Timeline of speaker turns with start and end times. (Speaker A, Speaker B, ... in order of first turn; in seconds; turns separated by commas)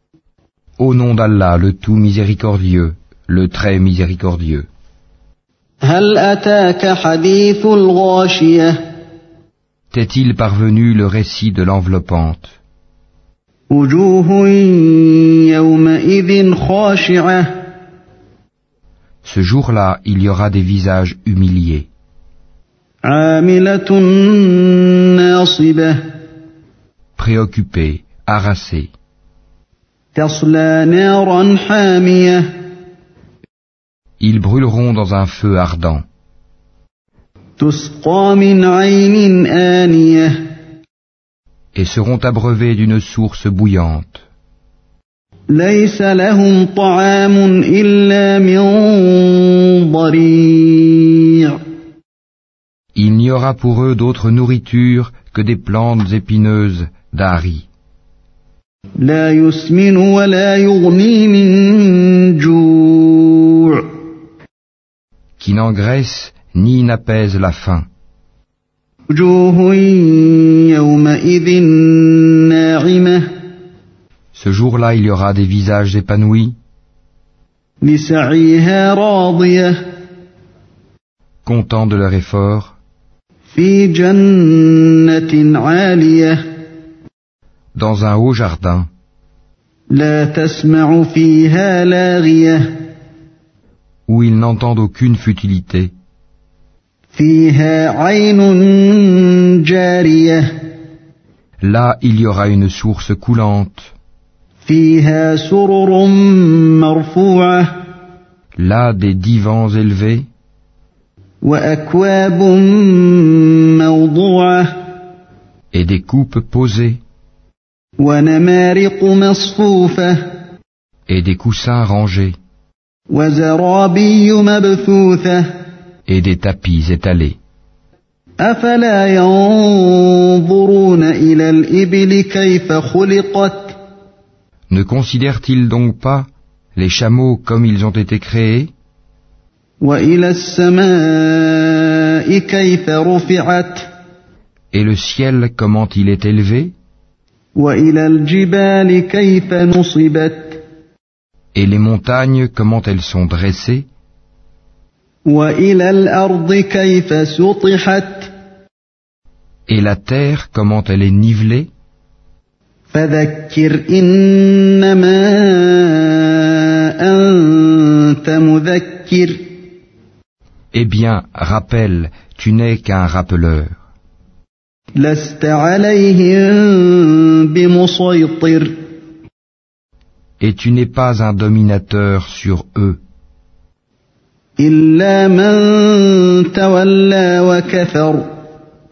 Speaker A: 0.8-4.7, Speaker B: 5.8-8.8, Speaker A: 9.9-12.5, Speaker B: 13.7-17.5, Speaker A: 19.2-21.9, Speaker B: 23.0-26.0, Speaker A: 27.2-28.9, Speaker B: 30.1-32.5, Speaker A: 34.2-36.0, Speaker B: 37.6-40.4, Speaker A: 41.7-44.2, Speaker B: 45.5-51.6, Speaker A: 52.9-57.7, Speaker B: 59.0-63.9, Speaker A: 65.4-67.9, Speaker B: 69.1-73.2, Speaker A: 74.3-76.5, Speaker B: 77.8-79.7, Speaker A: 81.4-82.7, Speaker B: 83.5-86.4, Speaker A: 87.7-88.9, Speaker B: 89.9-92.7, Speaker A: 94.1-95.9, Speaker B: 97.1-100.5, Speaker A: 101.6-103.9, Speaker B: 104.6-107.7, Speaker A: 108.5-110.3, Speaker B: 111.4-114.7, Speaker A: 115.7-117.0, Speaker B: 118.0-120.2, Speaker A: 121.1-122.4, Speaker B: 123.1-125.5, Speaker A: 126.1-127.3, Speaker B: 128.4-133.8, Speaker A: 134.7-138.7, Speaker B: 139.8-143.9, Speaker A: 144.7-146.7, Speaker B: 147.5-150.6, Speaker A: 151.5-153.9, Speaker B: 155.2-158.3, Speaker A: 159.7-161.7, Speaker B: 162.9-169.4, Speaker A: 170.7-173.7, Speaker B: 175.0-178.7, Speaker A: 180.4-183.0, Speaker B: 184.6-188.3